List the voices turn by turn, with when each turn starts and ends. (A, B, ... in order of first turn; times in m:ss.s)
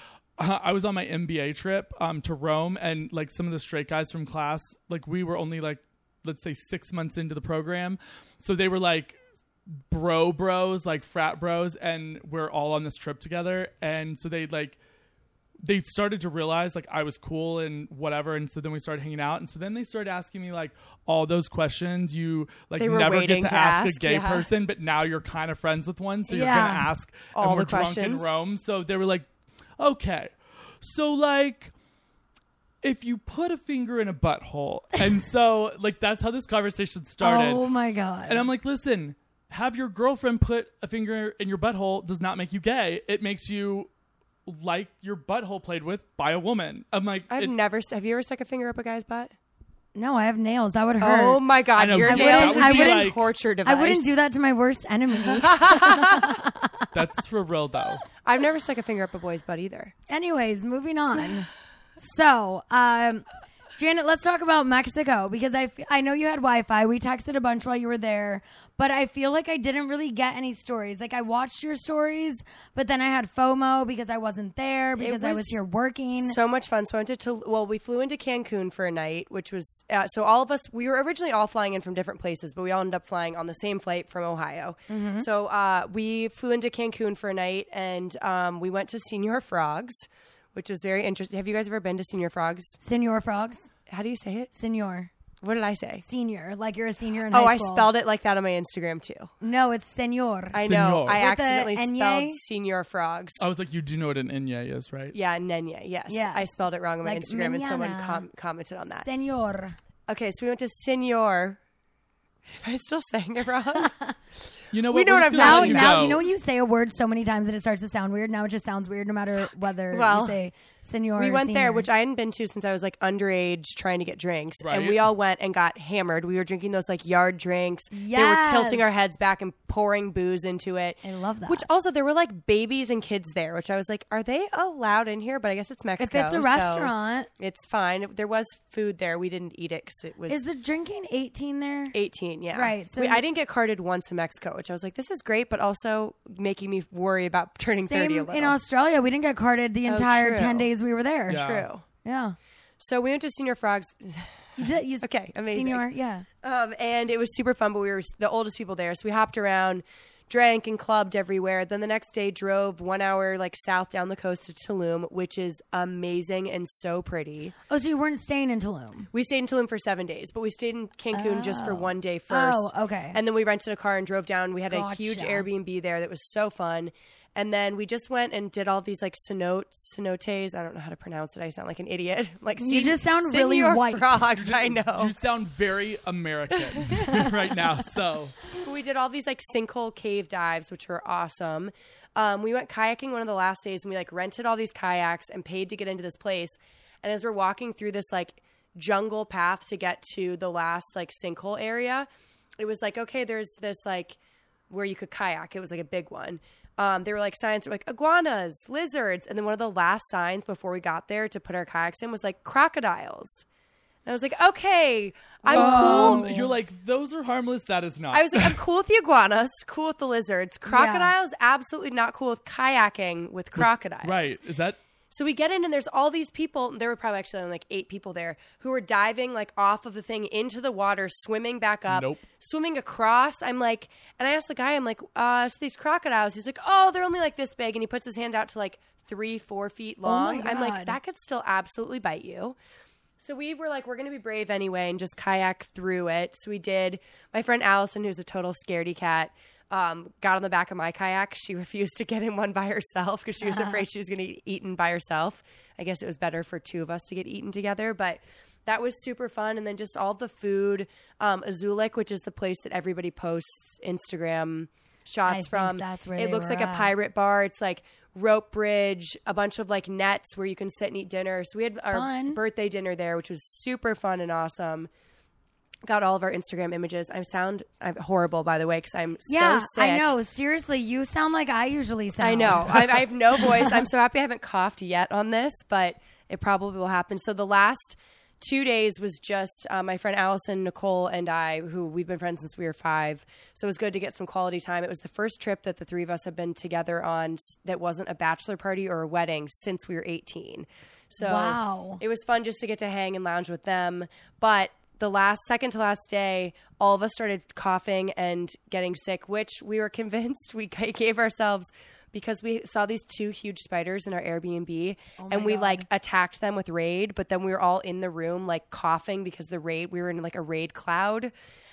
0:00.4-0:09.2 A
0:09.9-0:14.8 A
0:15.6-0:31.7 A
0:22.8-0:24.5 B
0:26.3-0:26.9 C
0:27.3-0:28.3 B
0:32.8-0:37.6 A
0:37.2-0:38.5 C
0:38.3-0:43.9 A
0:44.5-0:47.6 A
0:47.3-0:49.3 B
0:50.0-0:51.4 C
0:51.0-0:54.2 B
0:51.8-0:53.2 A
0:52.0-0:53.1 C
0:53.6-0:56.8 C
0:55.2-0:56.3 B
0:56.9-0:58.0 A
0:58.2-0:59.9 B
1:00.1-1:01.5 C
1:02.0-1:03.2 C
1:03.8-1:16.4 C
1:15.0-1:15.6 B
1:16.1-1:32.8 B
1:24.9-1:25.3 C
1:32.8-1:33.6 C
1:33.9-1:34.5 B
1:34.6-1:35.1 C
1:35.4-1:36.0 B
1:36.1-1:37.9 C
1:37.3-1:39.3 B
1:39.4-1:42.4 C
1:40.5-1:43.5 B
1:40.6-1:41.2 A
1:43.4-1:45.2 A
1:45.1-1:49.1 B
1:46.1-1:46.4 C
1:47.0-1:48.2 C
1:49.0-1:49.8 C
1:50.1-1:51.6 B
1:52.5-1:54.0 B
1:54.7-1:56.3 A
1:54.9-1:56.2 B
1:55.4-2:01.9 C
1:59.9-2:00.4 B
2:01.2-2:20.5 B
2:04.6-2:05.1 A
2:07.9-2:08.8 C
2:11.0-2:11.7 C
2:16.0-2:17.3 C
2:20.3-2:21.9 C
2:21.9-2:28.6 B
2:22.5-2:23.2 C
2:27.9-2:31.4 C
2:29.9-2:30.7 B
2:31.3-2:31.7 A
2:31.3-2:31.8 B
2:32.0-2:32.4 C
2:32.8-2:35.8 B
2:34.6-2:36.2 C
2:36.4-2:47.6 B
2:47.7-2:49.1 C
2:49.1-3:05.1 B
2:51.1-2:53.2 C
2:54.7-2:55.5 C
3:02.6-3:04.2 C
3:04.4-3:08.4 A
3:06.7-3:07.2 B
3:08.6-3:24.2 B
3:24.7-3:33.4 B
3:34.0-3:36.3 B
3:35.4-3:36.5 C
3:35.5-3:38.6 A
3:38.1-3:44.4 B
3:40.7-3:41.1 C
3:43.6-3:44.8 A
3:45.1-4:02.6 B
3:51.9-3:52.2 A
4:00.0-4:01.0 C
4:03.2-4:34.9 B
4:13.4-4:13.8 C
4:25.3-4:26.9 C
4:31.9-4:32.4 C
4:35.8-4:40.1 B
4:39.3-4:43.1 C
4:42.2-5:21.3 B
5:01.2-5:02.0 C
5:15.2-5:15.9 C